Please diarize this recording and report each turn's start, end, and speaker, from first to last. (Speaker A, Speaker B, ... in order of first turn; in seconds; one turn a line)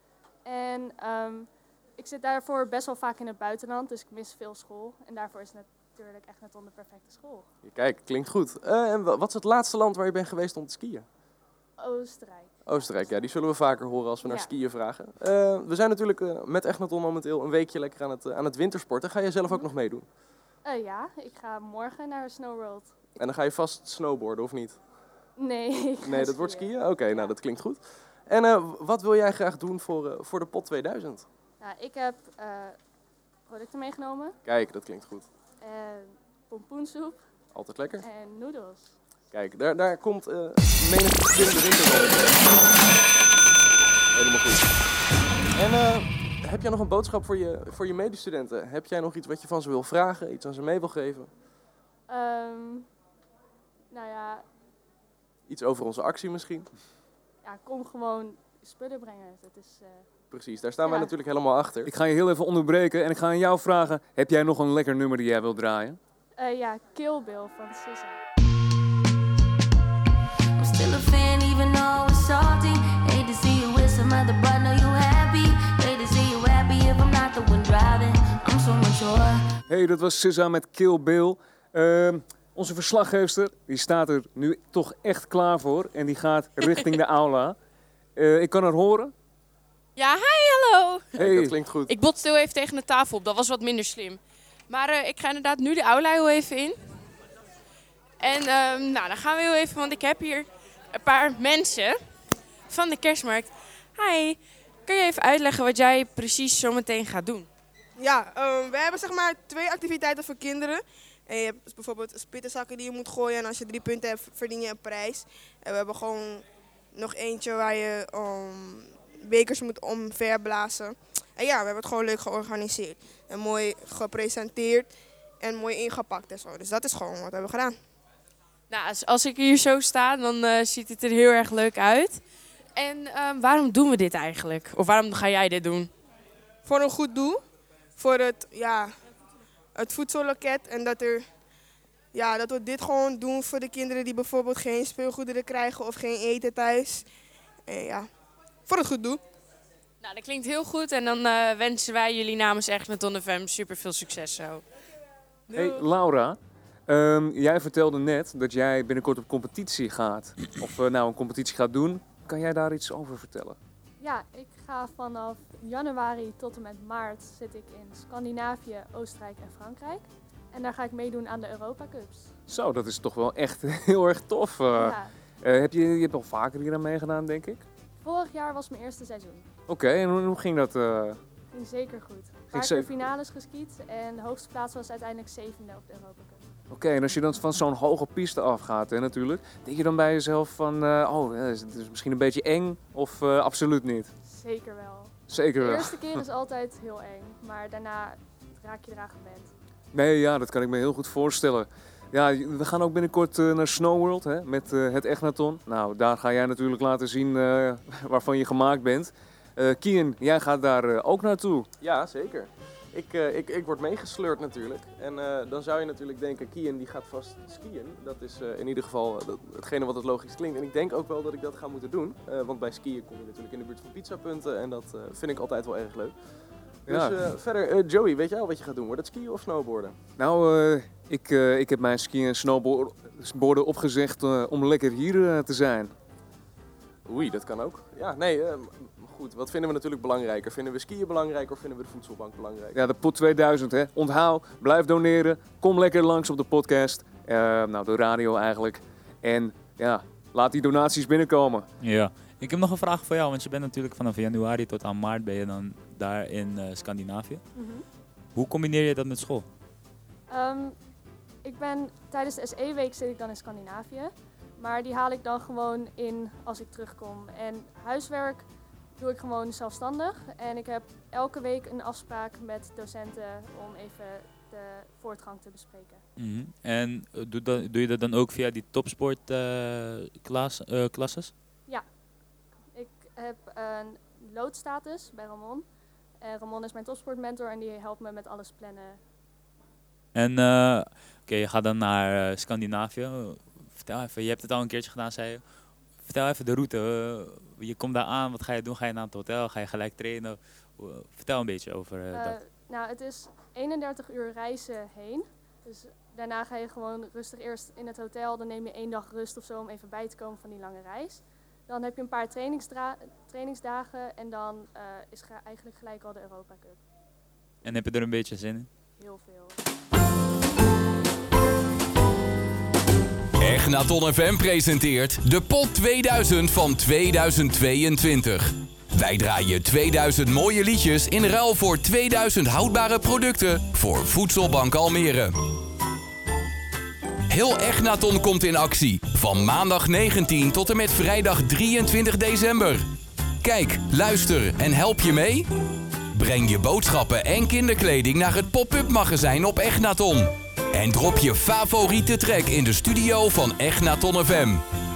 Speaker A: 0.5-7.5
Speaker B: 7.7-11.1
Speaker A: 11.8-12.5
Speaker B: 12.7-20.1
Speaker A: 14.2-14.5
Speaker A: 20.6-22.9
Speaker B: 23.2-24.8
Speaker A: 25.4-27.3
Speaker B: 26.0-31.2
Speaker A: 31.6-32.8
Speaker A: 33.5-34.4
Speaker B: 34.5-35.2
Speaker A: 35.6-37.2
Speaker B: 37.5-38.0
Speaker A: 38.0-39.0
Speaker B: 39.3-42.4
Speaker B: 44.1-44.7
Speaker B: 45.5-51.3
Speaker A: 52.1-52.9
Speaker A: 53.9-54.4
Speaker B: 55.5-56.7
Speaker A: 57.4-60.1
Speaker B: 60.3-61.9
Speaker A: 60.8-61.1
Speaker C: 61.9-66.0
Speaker A: 66.4-68.2
Speaker D: 70.6-79.5
Speaker C: 79.7-87.6
Speaker C: 88.2-89.1
Speaker E: 90.0-91.2
Speaker C: 91.2-91.6
Speaker B: 91.2-91.9
Speaker E: 91.9-96.8
Speaker E: 98.2-102.0
Speaker E: 102.7-107.5
Speaker F: 108.0-116.4
Speaker F: 116.9-127.8
Speaker E: 128.7-132.2
Speaker E: 132.8-135.9
Speaker F: 136.7-137.4
Speaker F: 138.0-138.9
Speaker F: 139.8-141.2
Speaker F: 142.1-147.1
Speaker F: 147.7-148.1
Speaker F: 148.7-149.2
Speaker E: 150.0-154.6
Speaker C: 155.5-156.4
Speaker C: 156.9-163.6
Speaker A: 164.0-172.3
Speaker C: 172.5-177.6
Speaker A: 174.7-175.1
Speaker A: 178.0-179.5
Speaker C: 179.7-181.2
Speaker A: 181.5-186.4
Speaker C: 182.5-182.9
Speaker C: 186.7-194.1
Speaker A: 194.2-199.5
Speaker C: 195.3-196.2
Speaker C: 199.9-211.7
Speaker B: 211.8-226.2
Speaker B: 226.9-229.9
Speaker C: 226.9-227.2
Speaker C: 230.2-235.9
Speaker B: 237.1-242.8
Speaker C: 242.8-251.7
Speaker G: 251.8-257.4
Speaker A: 257.6-257.8
Speaker G: 258.4-259.5
Speaker A: 260.3-260.8
Speaker A: 261.4-268.4
Speaker A: 269.0-276.0
Speaker G: 276.2-281.3
Speaker A: 282.7-285.6
Speaker A: 286.2-289.0
Speaker G: 290.1-295.4
Speaker G: 296.0-302.4
Speaker A: 302.1-316.8
Speaker G: 317.6-318.7
Speaker A: 319.0-319.6
Speaker H: 323.4-335.3
Speaker H: 337.3-342.9
Speaker H: 343.4-345.5
Speaker H: 346.1-354.6